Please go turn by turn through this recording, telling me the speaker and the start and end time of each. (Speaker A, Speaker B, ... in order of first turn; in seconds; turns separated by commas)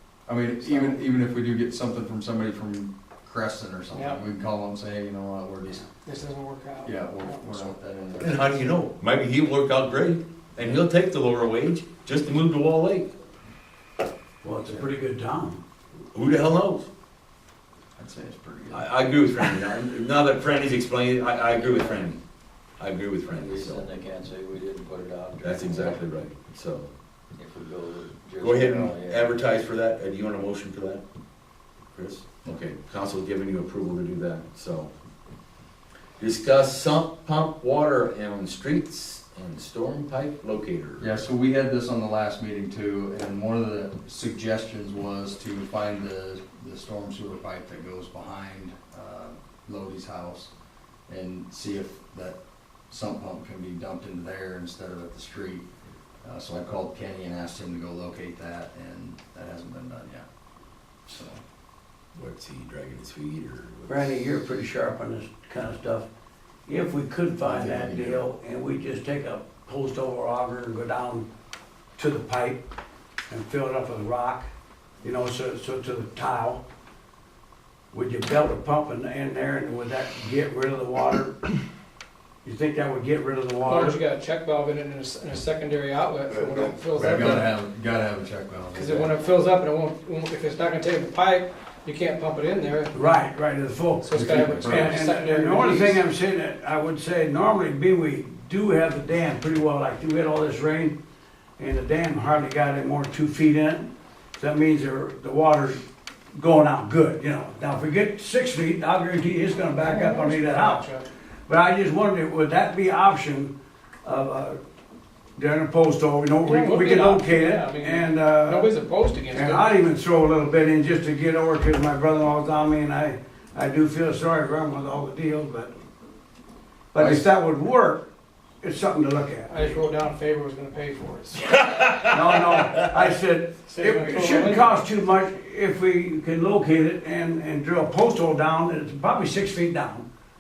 Speaker A: 0.3-5.9, Speaker B: 0.7-0.9, Speaker B: 3.9-4.2, Speaker B: 6.0-7.7, Speaker A: 6.8-8.7, Speaker C: 8.2-13.1, Speaker D: 14.4-15.6, Speaker C: 16.1-16.9, Speaker A: 18.0-19.4, Speaker C: 18.7-22.2, Speaker C: 22.8-23.9, Speaker E: 23.3-26.0, Speaker C: 25.4-26.9, Speaker E: 27.4-29.4, Speaker C: 28.4-31.1, Speaker C: 31.9-34.9, Speaker C: 36.2-41.2, Speaker A: 41.0-50.5, Speaker A: 51.1-52.4, Speaker A: 52.9-55.7, Speaker A: 56.2-60.2, Speaker A: 61.1-61.4, Speaker C: 62.1-64.2, Speaker D: 63.9-66.1, Speaker D: 66.7-71.3, Speaker A: 67.4-68.2, Speaker D: 72.0-72.6, Speaker D: 73.3-74.5, Speaker D: 75.0-76.6, Speaker D: 77.9-81.6, Speaker D: 82.4-84.0, Speaker B: 83.7-87.5, Speaker A: 86.9-89.1, Speaker B: 88.7-92.9, Speaker D: 92.9-101.0, Speaker B: 94.0-96.0, Speaker A: 94.1-95.0, Speaker D: 101.6-105.8, Speaker D: 106.3-110.9, Speaker B: 109.8-111.1, Speaker D: 111.5-113.5, Speaker D: 114.0-114.6, Speaker D: 115.4-118.7, Speaker B: 116.5-119.8, Speaker D: 119.3-125.7, Speaker D: 126.9-128.1, Speaker A: 127.0-127.2, Speaker D: 128.6-129.6, Speaker B: 129.5-131.6, Speaker C: 131.4-132.9, Speaker D: 132.1-140.1, Speaker B: 133.7-134.9